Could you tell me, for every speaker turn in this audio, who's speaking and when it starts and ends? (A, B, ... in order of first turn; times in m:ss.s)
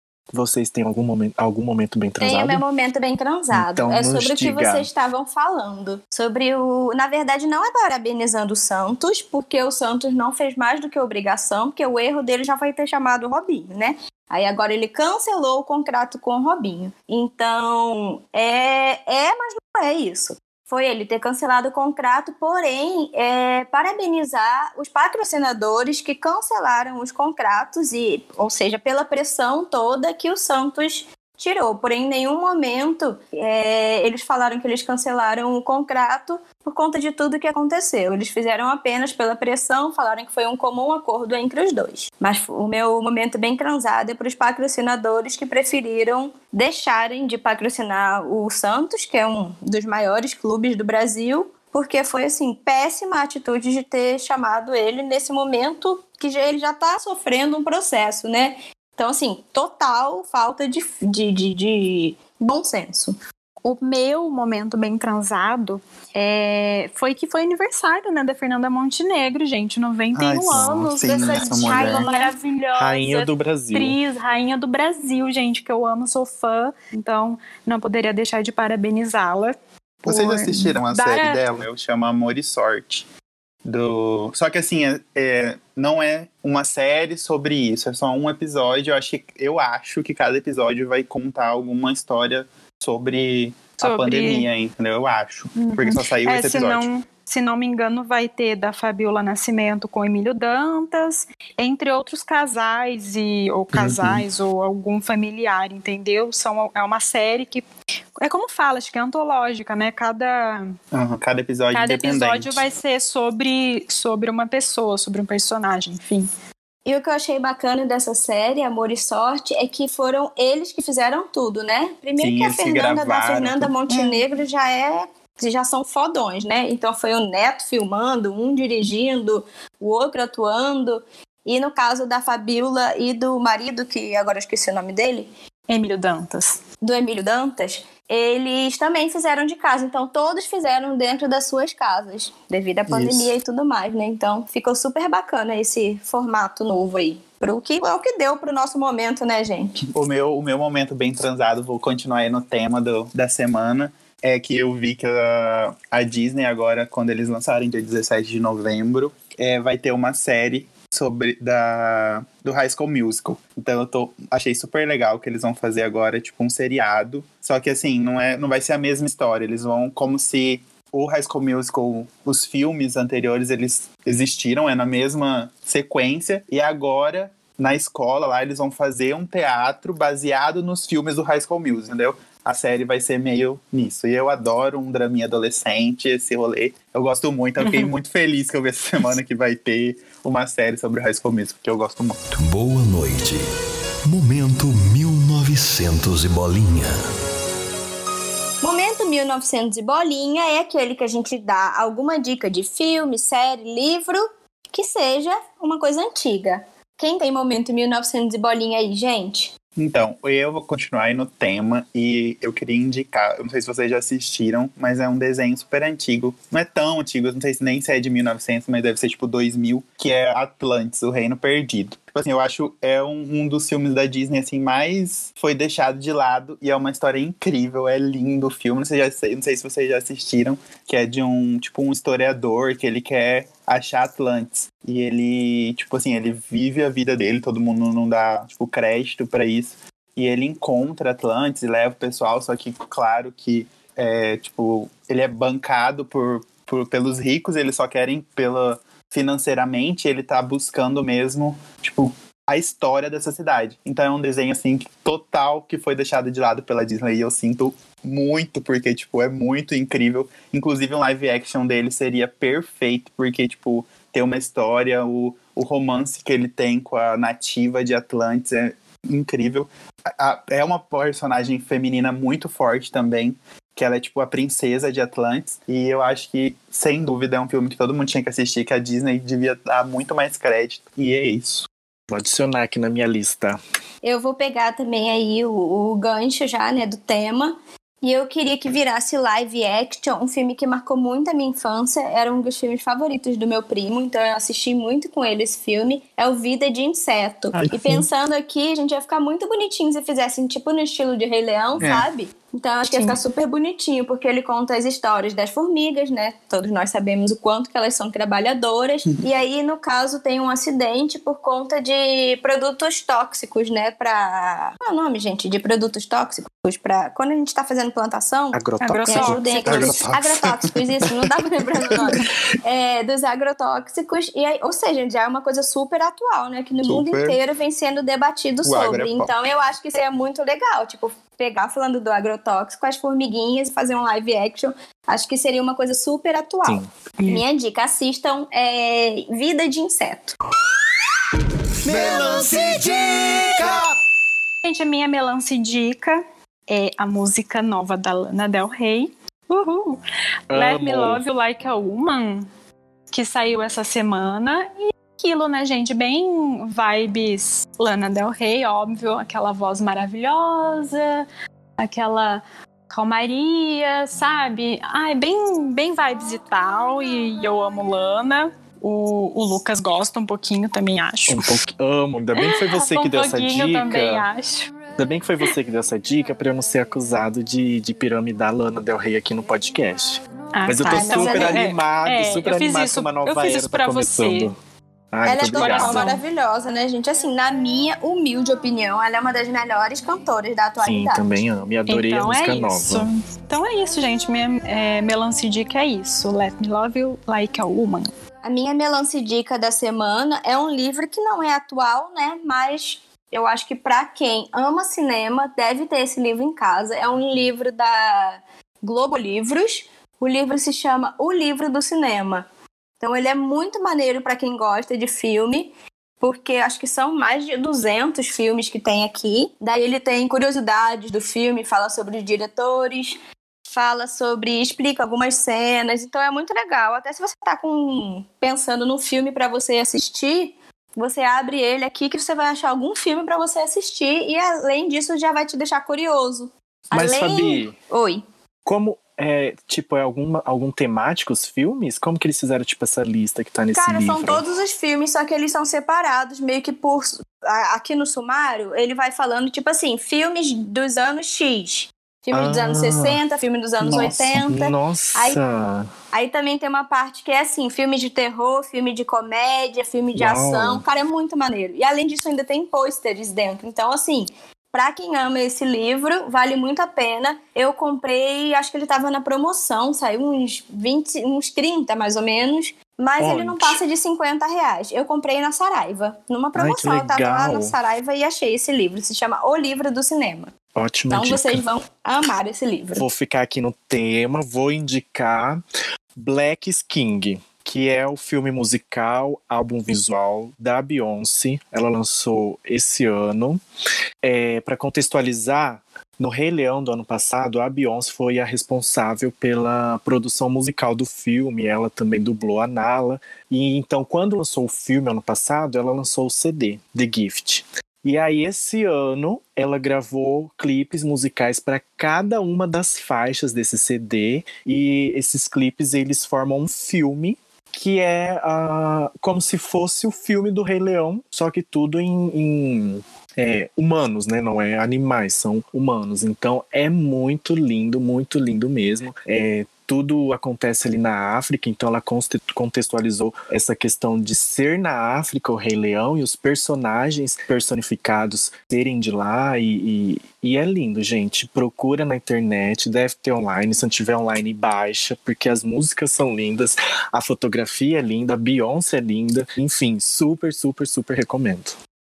0:00.3-0:02.6 A
0:02.2-1:03.2 B
0:03.5-0:04.9 A
1:03.6-1:21.4 C
1:10.1-1:12.1 D
1:10.5-1:10.9 A
1:11.0-1:12.3 B
1:12.8-1:14.0 A
1:20.0-1:23.0 D
1:23.6-1:36.9 D
1:33.8-1:34.5 C
1:35.6-1:47.6 C
1:43.7-1:44.2 D
1:48.2-1:50.8 C
1:50.9-1:52.6 D
1:51.7-1:56.3 C
1:56.8-2:15.3 B
2:02.2-2:04.2 D
2:15.7-2:16.6 C
2:16.8-2:29.8 B
2:22.9-2:23.3 D
2:29.9-3:12.3 D
3:12.4-3:13.4 E
3:14.0-3:17.0 E
3:18.6-3:29.5 B
3:29.8-4:41.7 D
4:42.1-4:43.6 A
4:44.0-5:40.4 B
4:57.5-4:58.0 D
5:01.8-5:02.1 D
5:02.9-5:03.2 C
5:18.5-5:20.0 A
5:18.8-5:19.9 C
5:19.6-5:20.7 D
5:26.8-5:27.4 D
5:28.6-5:29.3 D
5:36.6-5:36.9 A
5:41.8-5:43.8 E
5:41.9-5:42.5 A
5:44.6-5:52.5 C
5:50.5-5:51.2 A
5:53.1-6:01.2 C
6:01.8-6:11.6 C
6:11.3-6:14.2 A
6:12.4-6:14.7 C
6:15.0-6:24.6 A
6:20.5-6:24.5 C
6:20.9-6:21.7 B
6:25.1-6:26.2 A
6:25.2-6:31.2 B
6:25.5-6:26.2 C
6:30.8-6:33.1 A
6:31.9-6:38.1 C
6:38.4-6:52.4 B
6:53.0-7:18.2 B
7:16.9-7:17.7 A
7:18.6-7:24.4 A
7:23.7-7:35.4 B
7:32.3-7:33.2 A
7:33.8-7:34.3 D
7:34.4-7:35.9 A
7:36.1-8:00.5 B
7:40.1-7:40.8 A
7:53.2-7:53.8 A
7:56.5-7:57.8 A
8:00.7-8:01.6 A
8:01.1-8:03.0 B
8:03.0-8:05.6 A
8:06.2-8:13.6 A
8:14.2-9:11.8 A